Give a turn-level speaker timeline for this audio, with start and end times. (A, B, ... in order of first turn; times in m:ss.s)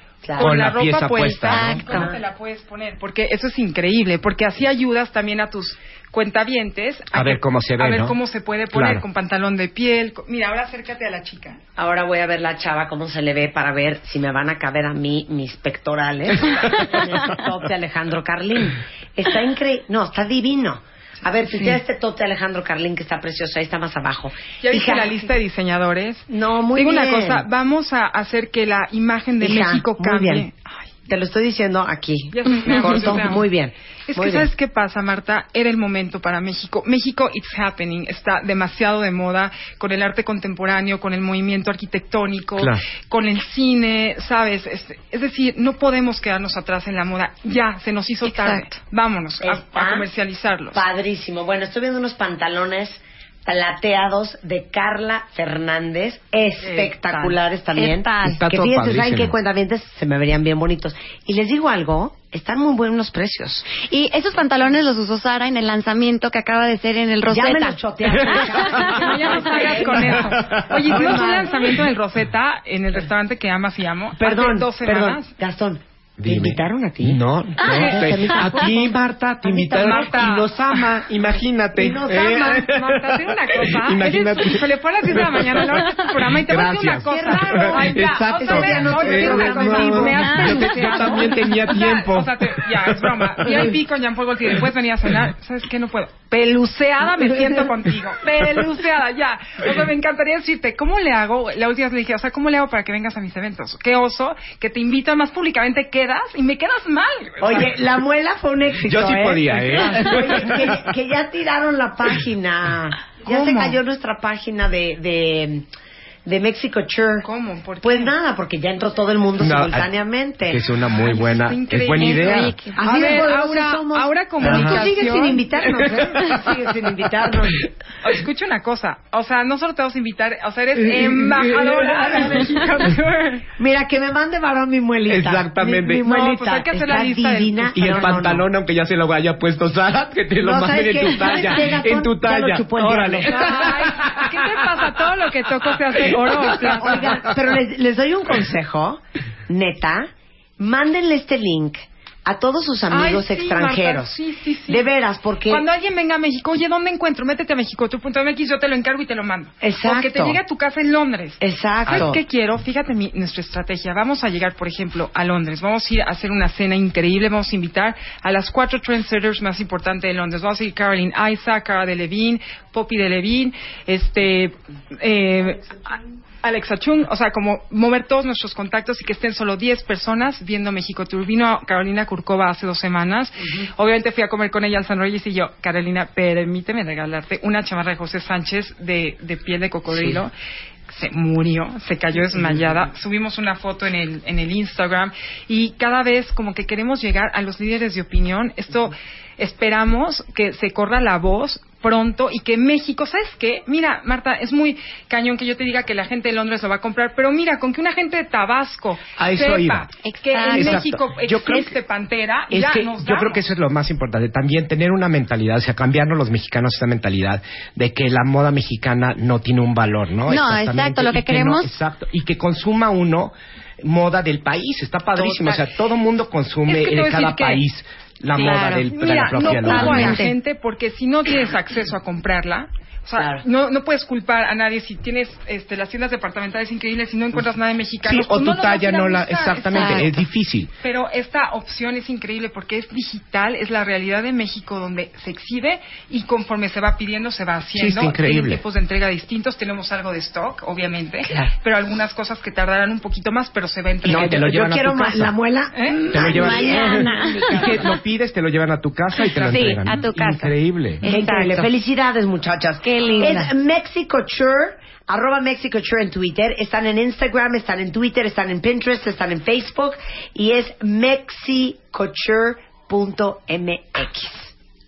0:00.2-0:00.5 A
0:00.3-0:11.6 B
0:00.4-0:01.8 C
0:01.5-0:02.1 D
0:01.8-0:02.2 A
0:07.1-0:08.2 C
0:08.7-0:09.0 C
0:11.8-0:25.3 A
0:24.6-0:30.9 B
0:26.3-0:27.5 A
0:29.4-0:30.5 A
0:31.1-0:34.5 A
0:32.3-0:33.5 B
0:34.1-0:50.8 B
0:48.2-0:48.8 D
0:49.4-0:50.1 A
0:50.7-1:03.7 A
0:56.6-0:57.4 B
0:57.8-0:58.4 D
0:58.2-0:59.4 C
1:03.7-1:10.0 D
1:07.3-1:11.6 A
1:08.9-1:15.3 B
1:10.4-1:10.9 C
1:14.2-1:20.1 A
1:16.2-1:33.8 C
1:19.7-1:20.5 B
1:21.8-1:22.7 A
1:22.5-1:47.6 B
1:27.1-1:30.2 A
1:30.4-1:31.3 D
1:47.4-1:55.7 A
1:48.8-1:50.8 C
1:49.7-1:50.4 B
1:53.3-1:53.8 B
1:56.3-1:57.3 A
1:57.2-1:58.1 B
1:57.8-2:00.6 A
1:59.4-1:59.9 C
2:00.5-2:02.6 C
2:00.9-2:05.4 B
2:02.0-2:02.8 D
2:02.8-2:07.6 A
2:04.4-2:04.9 C
2:05.7-2:06.4 C
2:08.0-2:13.4 B
2:10.8-2:12.9 C
2:13.6-2:18.5 A
2:15.1-2:16.2 C
2:16.0-2:18.1 B
2:17.7-2:24.9 C
2:20.4-2:23.7 A
2:23.3-2:27.2 B
2:25.8-2:26.8 C
2:26.7-2:34.2 A
2:32.9-2:34.9 B
2:34.7-2:35.6 A
2:35.5-2:55.8 B
2:39.6-2:40.4 A
2:41.4-2:42.2 A
2:56.4-3:10.3 B
3:10.9-3:33.4 B
3:29.2-3:29.9 C
3:30.0-3:30.9 D
3:30.5-3:31.8 C
3:32.5-3:50.2 C
3:40.3-3:41.7 D
3:46.7-3:47.6 B
3:48.3-3:50.4 D
3:48.9-4:00.2 B
3:58.0-4:00.7 C
3:59.7-4:00.1 D
4:00.8-4:14.5 B
4:07.7-4:08.6 C
4:11.3-4:11.5 A
4:14.0-4:15.3 C
4:14.1-4:17.0 A
4:15.8-4:16.0 B
4:16.1-4:17.9 D
4:16.1-4:21.0 C
4:19.3-4:21.7 D
4:21.0-4:34.5 A
4:22.8-4:23.5 D